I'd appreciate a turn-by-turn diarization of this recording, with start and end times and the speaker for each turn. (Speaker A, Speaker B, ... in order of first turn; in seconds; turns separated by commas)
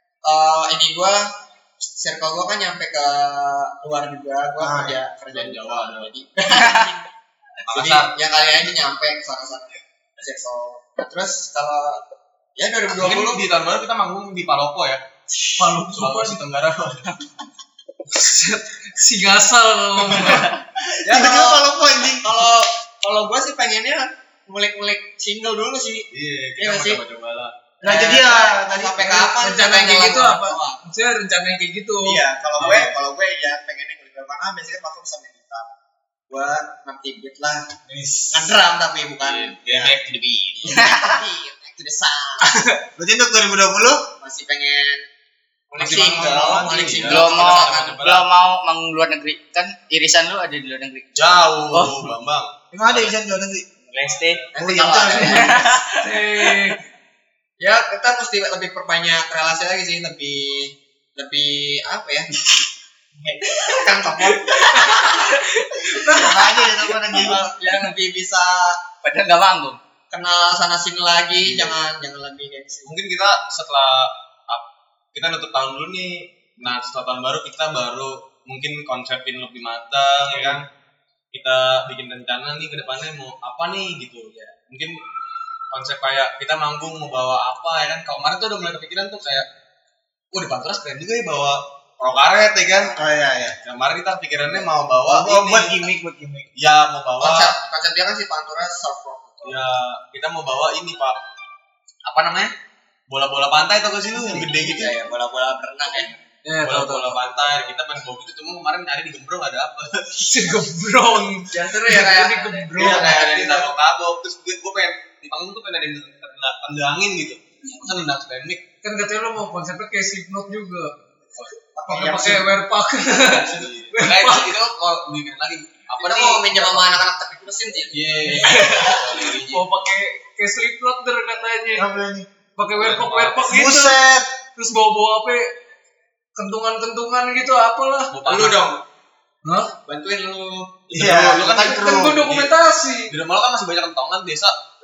Speaker A: 0.2-1.3, Speaker A: 1.9-7.0, Speaker B: 4.6-5.0, Speaker C: 5.3-6.1, Speaker C: 7.7-8.1, Speaker A: 7.7-12.0, Speaker A: 12.6-13.5, Speaker C: 12.9-15.0, Speaker D: 15.6-16.4, Speaker C: 16.0-17.1, Speaker D: 18.1-20.6, Speaker A: 21.0-21.7, Speaker B: 21.1-22.5, Speaker A: 22.2-26.1, Speaker C: 26.1-27.5, Speaker A: 26.6-27.0, Speaker B: 27.8-29.2, Speaker A: 27.8-30.8, Speaker D: 29.2-32.9, Speaker A: 32.0-35.7, Speaker B: 32.6-32.9, Speaker A: 36.3-37.7, Speaker B: 37.9-38.5, Speaker A: 38.3-39.6, Speaker C: 39.2-40.6, Speaker B: 39.7-39.9, Speaker E: 40.6-41.2, Speaker A: 40.6-42.7, Speaker D: 42.5-42.8, Speaker B: 43.0-44.0, Speaker A: 44.2-45.0, Speaker A: 45.7-48.0, Speaker C: 45.7-48.3, Speaker E: 47.0-51.1, Speaker C: 51.1-53.2, Speaker E: 51.7-52.1, Speaker B: 52.7-53.7, Speaker E: 53.9-54.4, Speaker C: 54.0-54.5, Speaker A: 54.5-55.7, Speaker B: 54.6-55.6, Speaker E: 55.1-56.5, Speaker D: 56.0-56.8, Speaker A: 57.6-62.3, Speaker A: 63.2-64.8, Speaker D: 64.7-66.8, Speaker E: 64.8-65.9, Speaker B: 66.0-67.5, Speaker A: 67.1-68.8, Speaker E: 69.0-69.8, Speaker A: 70.1-72.9, Speaker C: 72.8-80.7, Speaker C: 81.3-85.0, Speaker C: 85.7-89.5, Speaker C: 90.3-93.0, Speaker B: 92.9-93.6, Speaker C: 93.6-95.8, Speaker B: 95.0-96.5, Speaker C: 96.6-97.5, Speaker A: 97.2-99.6, Speaker C: 99.4-101.2, Speaker C: 102.1-102.5, Speaker C: 103.1-105.0, Speaker A: 104.3-106.1, Speaker D: 106.5-107.4, Speaker C: 106.6-110.5, Speaker D: 110.2-113.2, Speaker A: 111.5-113.7, Speaker C: 112.8-118.6, Speaker D: 118.8-120.9, Speaker A: 121.8-122.5, Speaker D: 121.9-124.6, Speaker C: 123.3-126.9, Speaker A: 125.9-128.1, Speaker C: 127.9-129.7, Speaker D: 128.3-131.9, Speaker B: 131.7-132.3, Speaker D: 132.6-134.0, Speaker C: 132.8-133.4, Speaker B: 133.5-134.3, Speaker D: 134.6-135.5, Speaker D: 136.3-138.2, Speaker C: 138.1-138.7, Speaker A: 138.3-138.8, Speaker D: 139.4-139.7, Speaker A: 139.9-140.7, Speaker C: 140.9-142.5, Speaker B: 140.9-142.2, Speaker D: 141.5-143.2, Speaker C: 143.1-144.6